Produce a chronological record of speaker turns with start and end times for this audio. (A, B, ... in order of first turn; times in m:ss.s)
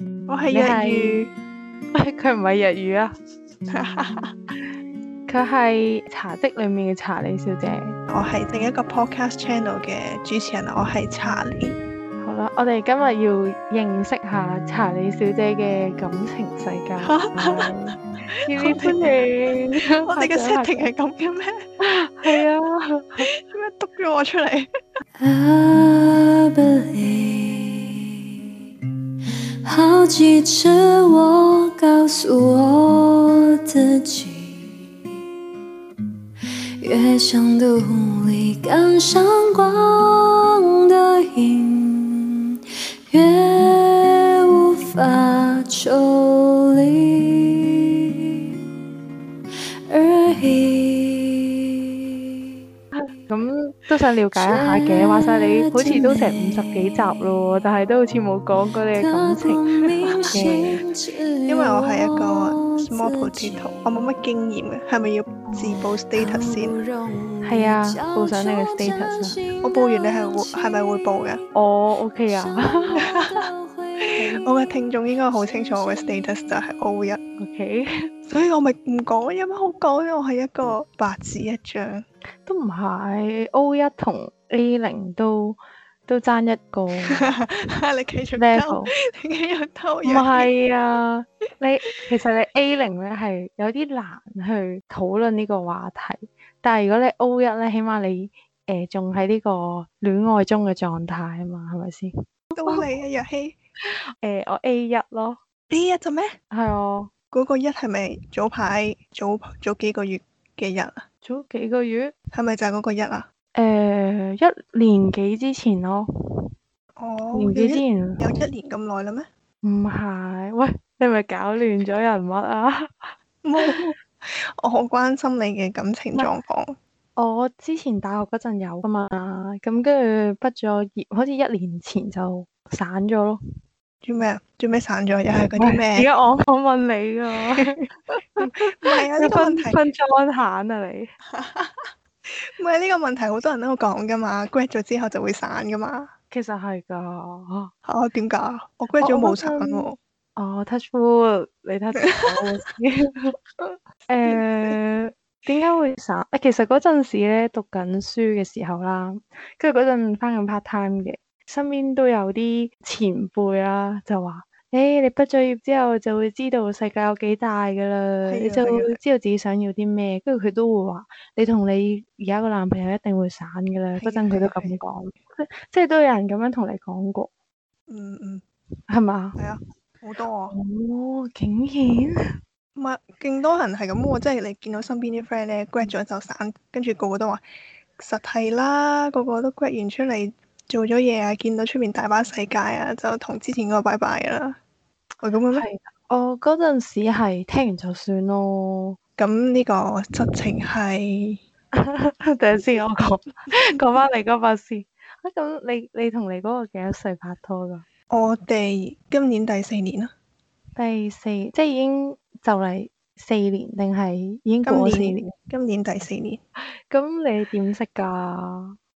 0:00.3-0:01.3 A
0:00.5-0:01.2 B
0:01.9-0:03.1 B
0:03.7-0:04.3 A
0:05.3-0:08.0 B
0:08.1-0:11.7 A
0:12.2-0:20.9 B
0:17.0-0:17.7 A
0:18.6-0:19.0 A
0:20.0-0:21.6 A
0:21.8-0:23.3 B
0:23.3-0:24.7 A
0:25.2-0:28.1 C
0:29.6-0:34.9 C
0:36.8-0:42.4 C
0:43.1-0:47.8 C
0:49.9-0:51.7 C
0:53.3-0:59.6 B
0:54.4-0:57.2 C
0:58.9-1:03.9 C
1:00.3-1:00.8 B
1:01.5-1:06.8 A
1:05.7-1:11.5 C
1:07.4-1:09.4 B
1:09.6-1:11.4 A
1:11.5-1:13.1 B
1:12.3-1:14.4 C
1:13.1-1:13.5 A
1:14.2-1:17.2 A
1:15.3-1:16.3 C
1:17.4-1:17.9 B
1:18.2-1:22.0 A
1:22.4-1:27.3 B
1:27.1-1:30.5 A
1:28.4-1:28.9 B
1:30.0-1:42.1 B
1:42.5-1:43.6 A
1:43.8-1:45.4 B
1:45.7-1:46.4 A
1:46.5-1:47.1 B
1:47.3-1:51.0 A
1:51.2-1:52.1 B
1:52.3-1:53.2 A
1:53.5-1:56.1 B
1:57.0-1:59.3 A
1:57.3-1:58.3 B
1:59.6-2:03.9 B
2:03.4-2:06.8 A
2:07.2-2:13.4 B
2:14.0-2:16.1 A
2:15.6-2:17.8 B
2:17.5-2:17.8 A
2:18.4-2:21.1 B
2:18.7-2:19.8 A
2:21.3-2:26.1 A
2:26.3-2:27.7 B
2:27.8-2:30.0 A
2:29.0-2:33.4 B
2:34.1-2:57.3 B
2:34.3-2:34.7 A
2:48.3-2:49.0 A
2:54.0-2:54.7 A
2:57.9-2:58.4 A
2:58.9-2:59.5 B
2:59.4-3:00.5 A
3:00.5-3:02.3 B
3:02.8-3:07.4 A
3:08.0-3:14.6 A
3:15.2-3:15.6 A
3:15.5-3:19.0 B
3:19.2-3:21.4 A
3:21.8-3:27.8 B
3:28.1-3:30.1 A
3:30.8-3:35.2 B
3:34.6-3:36.4 A
3:36.9-3:38.8 B